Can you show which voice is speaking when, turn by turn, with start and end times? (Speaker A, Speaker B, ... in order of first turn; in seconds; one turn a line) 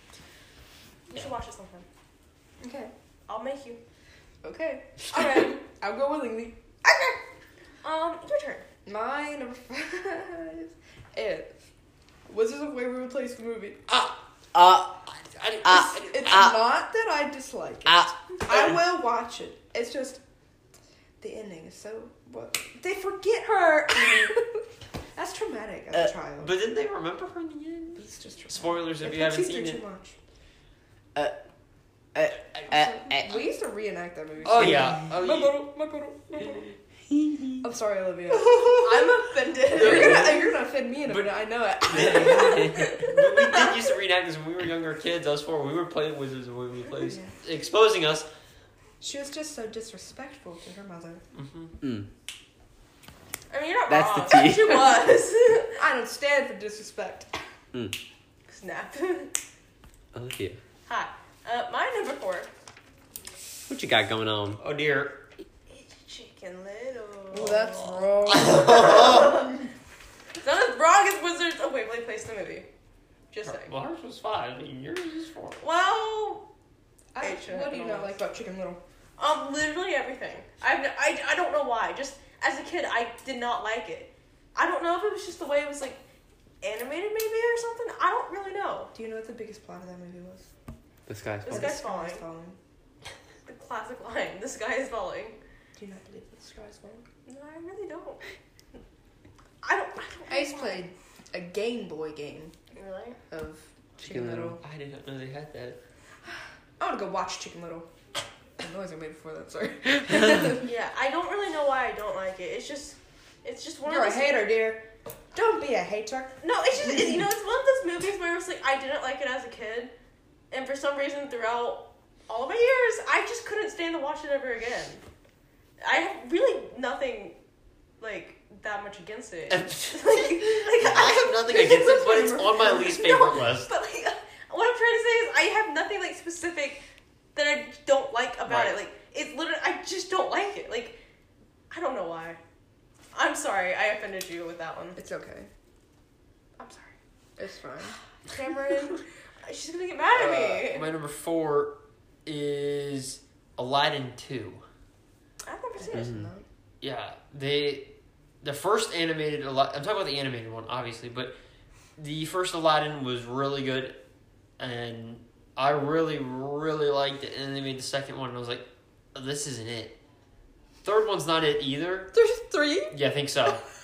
Speaker A: 1.1-1.9
Speaker B: 2.6-2.9
Speaker A: 3.3-3.8
Speaker B: 4.4-7.2
Speaker A: 7.8-8.6
Speaker B: 8.8-11.5
Speaker B: 12.3-13.8
Speaker C: 13.9-14.2
Speaker D: 14.5-16.6
Speaker C: 15.3-16.4
Speaker B: 15.6-20.2
Speaker D: 17.9-18.1
Speaker B: 21.2-26.5
Speaker C: 26.4-29.8
Speaker B: 27.9-30.1
Speaker D: 32.1-33.4
Speaker B: 32.7-36.7
Speaker C: 34.4-35.5
Speaker D: 34.6-34.9
Speaker D: 37.1-37.6
Speaker B: 37.6-38.8
Speaker C: 38.3-39.1
Speaker A: 38.7-40.2
Speaker B: 39.7-43.7
Speaker C: 39.7-48.3
Speaker A: 42.0-43.8
Speaker D: 42.2-43.0
Speaker B: 47.0-47.3
Speaker B: 49.0-51.2
Speaker C: 51.3-51.7
Speaker D: 51.8-52.1
Speaker A: 53.5-55.8
Speaker D: 53.9-55.0
Speaker B: 55.8-57.4
Speaker A: 58.5-59.4
Speaker D: 60.1-60.6
Speaker A: 60.9-62.5
Speaker D: 63.7-64.6
Speaker C: 64.6-65.2
Speaker A: 65.7-69.5
Speaker B: 67.3-69.6
Speaker C: 68.3-69.3
Speaker A: 70.4-72.7
Speaker A: 73.3-73.7
Speaker C: 73.4-75.6
Speaker A: 75.6-76.5
Speaker B: 77.1-78.8
Speaker A: 77.2-78.1
Speaker A: 79.2-86.0
Speaker A: 86.6-88.9
Speaker B: 88.9-90.5
Speaker D: 91.1-91.8
Speaker A: 91.4-92.2
Speaker B: 91.5-92.6
Speaker A: 93.5-95.4
Speaker B: 95.8-97.0
Speaker A: 97.2-98.2
Speaker A: 99.6-100.8
Speaker B: 100.3-102.5
Speaker A: 102.7-103.2
Speaker B: 103.3-104.6
Speaker D: 104.0-104.6
Speaker C: 104.6-105.8
Speaker B: 106.8-107.9
Speaker B: 108.6-110.7
Speaker A: 110.6-114.5
Speaker B: 113.8-117.2
Speaker A: 116.4-119.9
Speaker A: 120.5-125.0
Speaker A: 125.8-127.4
Speaker A: 128.0-131.3
Speaker C: 129.5-133.7
Speaker B: 131.5-133.3
Speaker A: 132.6-136.8
Speaker A: 137.3-141.0
Speaker C: 138.4-138.8
Speaker A: 141.7-142.4
Speaker A: 143.1-145.0
Speaker B: 144.9-145.5
Speaker A: 146.6-146.9
Speaker B: 147.4-148.0
Speaker A: 148.2-150.8
Speaker C: 150.1-154.6
Speaker A: 155.4-156.1
Speaker B: 155.8-156.4
Speaker D: 155.9-156.3
Speaker C: 156.8-161.3
Speaker C: 162.0-164.0
Speaker C: 164.6-168.6
Speaker C: 169.1-170.0
Speaker C: 170.8-172.1
Speaker B: 172.1-173.0
Speaker C: 172.9-173.6